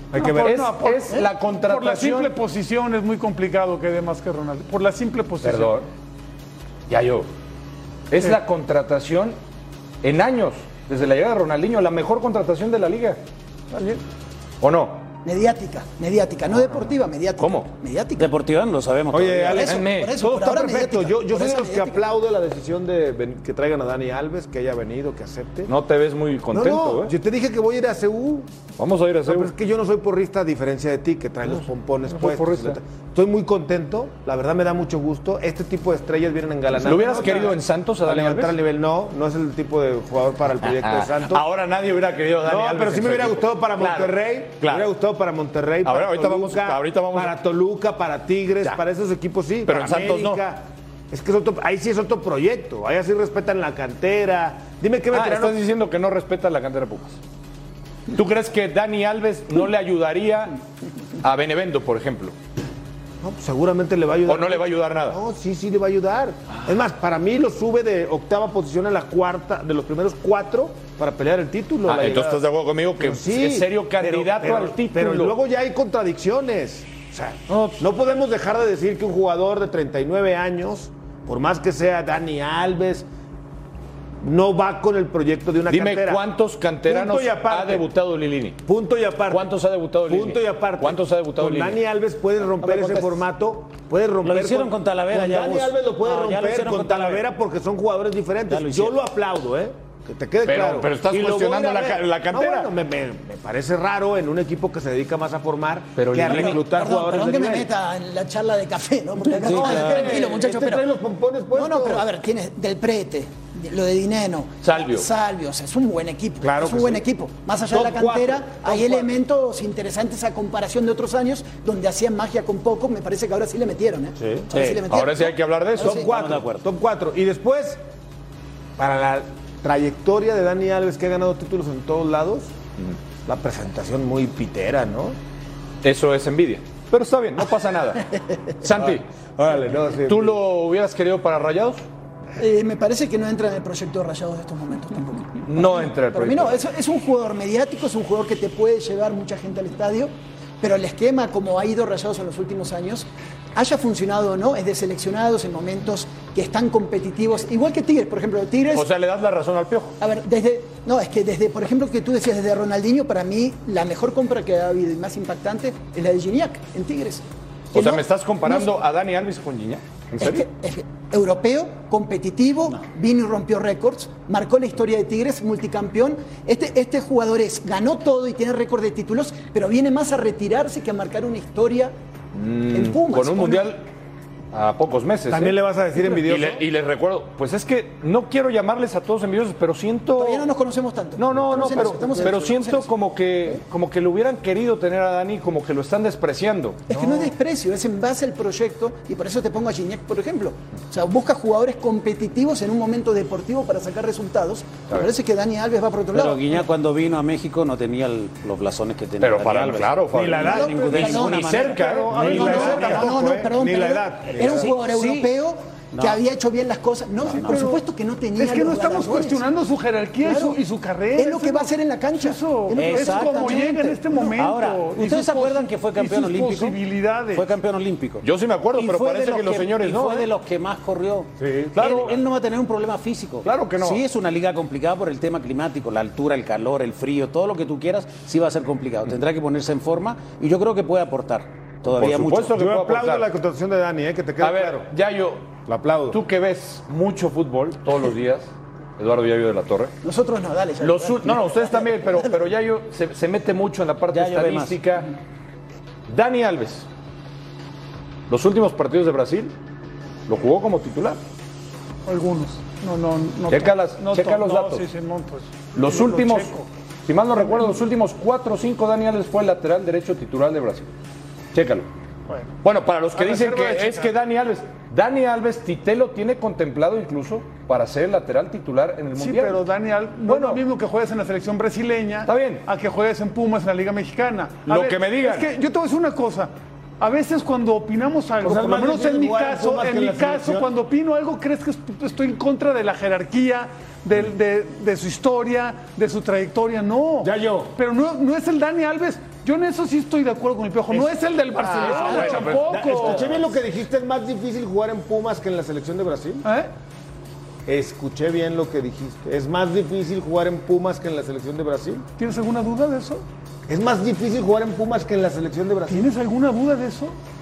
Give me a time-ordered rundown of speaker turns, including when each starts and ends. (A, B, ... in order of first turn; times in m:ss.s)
0:00.1-0:00.6 A
0:00.1-0:05.8 B
0:00.4-0:02.4 C
0:05.4-0:05.9 C
0:06.9-0:07.3 C
0:08.1-0:09.4 C
0:10.0-0:13.2 C
0:13.7-0:14.0 B
0:14.6-0:15.0 C
0:15.2-0:18.3 D
0:17.4-0:17.7 C
0:18.2-0:19.7 E
0:19.1-0:25.7 A
0:19.4-0:22.0 D
0:19.5-0:20.2 C
0:25.6-0:27.1 C
0:26.5-0:28.5 A
0:28.8-0:29.5 C
0:29.2-0:41.4 A
0:31.5-0:32.8 C
0:36.8-0:38.6 C
0:40.6-0:44.9 C
0:42.4-0:55.6 A
0:45.8-0:47.3 C
0:49.6-0:50.4 C
0:55.1-0:57.2 C
0:58.1-1:00.6 C
1:01.2-1:02.3 C
1:03.2-1:12.4 A
1:04.2-1:05.2 C
1:11.8-1:15.4 C
1:13.0-1:23.0 A
1:17.5-1:17.8 C
1:24.2-1:26.2 A
1:25.7-1:28.6 C
1:26.8-1:27.9 A
1:28.6-1:29.5 A
1:29.3-1:31.8 C
1:30.0-1:47.7 A
1:32.6-1:33.2 E
1:34.2-1:37.3 E
1:38.5-1:39.0 E
1:40.4-1:42.7 C
1:46.0-1:46.7 C
1:46.3-1:50.8 D
1:49.3-1:52.0 A
1:49.4-1:50.2 E
1:51.5-2:06.1 D
1:54.6-1:55.0 C
1:56.4-1:57.0 A
1:57.7-1:59.1 A
2:04.2-2:04.5 A
2:04.5-2:04.8 E
2:04.9-2:06.2 C
2:05.8-2:07.8 A
2:05.8-2:06.6 E
2:08.8-2:12.5 A
2:13.2-2:15.2 A
2:15.8-2:18.1 C
2:18.6-2:19.0 C
2:18.6-2:20.4 A
2:20.0-2:21.8 C
2:22.4-2:38.8 D
2:25.4-2:26.6 C
2:38.7-2:40.0 C
2:40.0-2:48.7 D
2:47.7-2:50.4 C
2:50.2-3:01.9 D
3:02.3-3:03.8 C
3:02.7-3:03.8 D
3:04.5-3:10.5 C
3:05.3-3:06.6 A
3:10.2-3:12.9 D
3:11.2-3:17.3 C
3:16.9-3:26.6 D
3:26.1-3:32.9 E
3:29.2-3:33.1 C
3:30.1-3:34.7 A
3:30.4-3:39.4 D
3:32.6-3:32.9 B
3:34.4-3:35.3 E
3:35.9-3:36.2 E
3:37.3-3:37.8 B
3:38.4-3:47.5 B
3:40.2-3:40.6 D
3:41.2-3:44.0 D
3:42.7-3:46.8 E
3:47.3-4:02.5 E
3:48.2-3:50.3 C
3:51.4-3:51.7 A
3:51.7-3:52.2 C
3:53.4-3:54.0 C
4:01.8-4:03.3 C
4:02.5-4:04.9 A
4:04.4-4:05.5 C
4:05.6-4:06.2 A
4:06.1-4:09.9 C
4:10.0-4:12.3 D
4:10.8-4:15.1 C
4:14.1-4:15.0 E
4:16.1-4:16.9 C
4:18.3-4:19.5 C
4:20.3-4:21.2 C
4:22.0-4:26.7 B
4:23.5-4:24.9 C
4:25.7-4:26.5 C
4:27.0-4:30.9 C
4:31.5-4:31.9 C
4:32.3-4:32.5 B
4:32.6-4:39.6 C
4:33.1-4:34.1 B
4:39.1-5:03.5 B
4:40.2-4:40.6 C
4:42.2-4:42.6 C
4:44.6-4:45.5 C
4:48.4-4:50.7 A
4:57.2-4:57.7 A
5:00.9-5:06.4 A
5:01.7-5:03.3 C
5:06.4-5:06.7 B
5:07.6-5:12.0 A
5:12.2-5:13.2 B
5:13.7-5:16.1 A
5:15.9-5:17.2 B